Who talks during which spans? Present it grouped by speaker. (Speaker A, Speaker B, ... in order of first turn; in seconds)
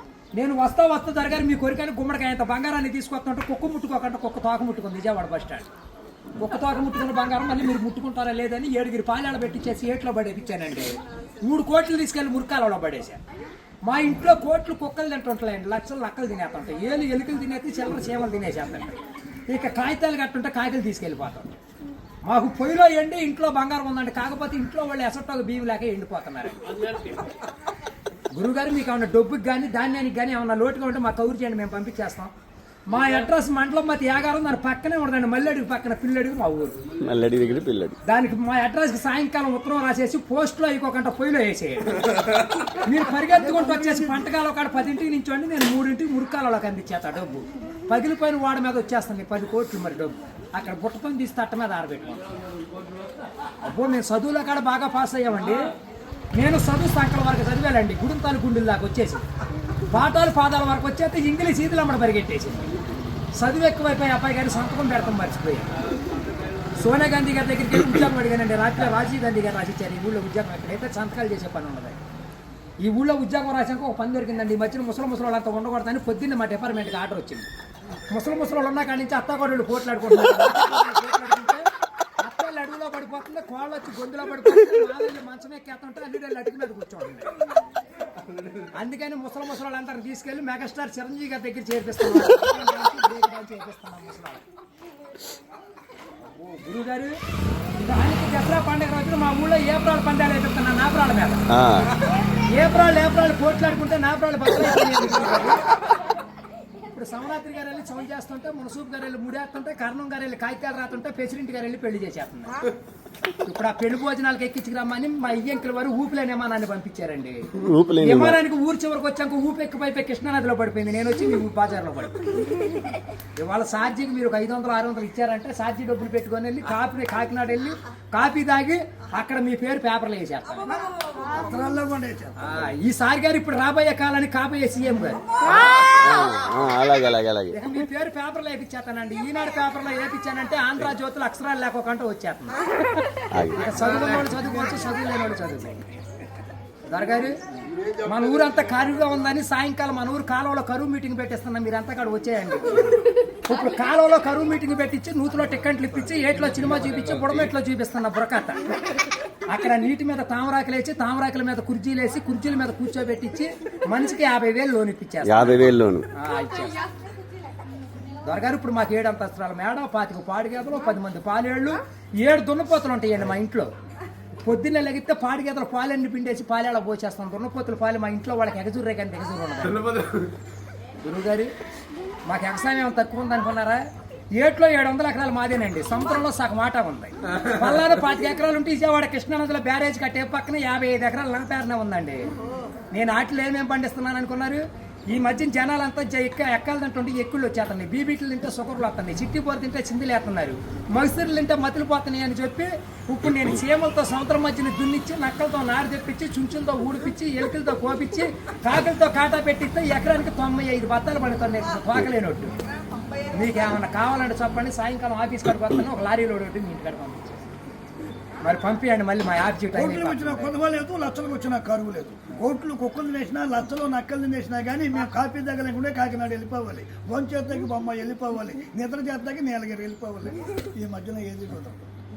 Speaker A: 0.4-5.7, 6.4-13.2, 13.9-19.0, 19.5-21.6, 22.2-27.1, 28.3-32.3, 32.9-36.8, 38.1-52.2, 53.6-55.7, 56.4-59.2, 59.9-62.7, 63.4-65.7, 66.8-72.0, 72.8-77.5, 78.1-81.7, 82.2-87.3, 88.6-94.5, 96.2-97.2, 97.8-101.4, 102.4-105.6, 106.8-112.6, 113.4-122.3, 123.4-130.7, 132.4-135.2, 137.5-142.6, 143.4-145.9, 146.9-147.4, 148.0-158.7, 159.5-166.8, 168.2-173.7, 174.4-180.0, 181.0-181.5, 182.3-183.8, 184.3-192.3, 192.9-212.5, 213.2-217.5, 218.4-220.5
Speaker B: 37.0-38.0, 101.5-101.9, 117.5-118.4, 135.7-137.6, 143.3-143.8, 165.2-166.1
Speaker C: 43.3-44.3, 131.2-132.6, 219.7-231.8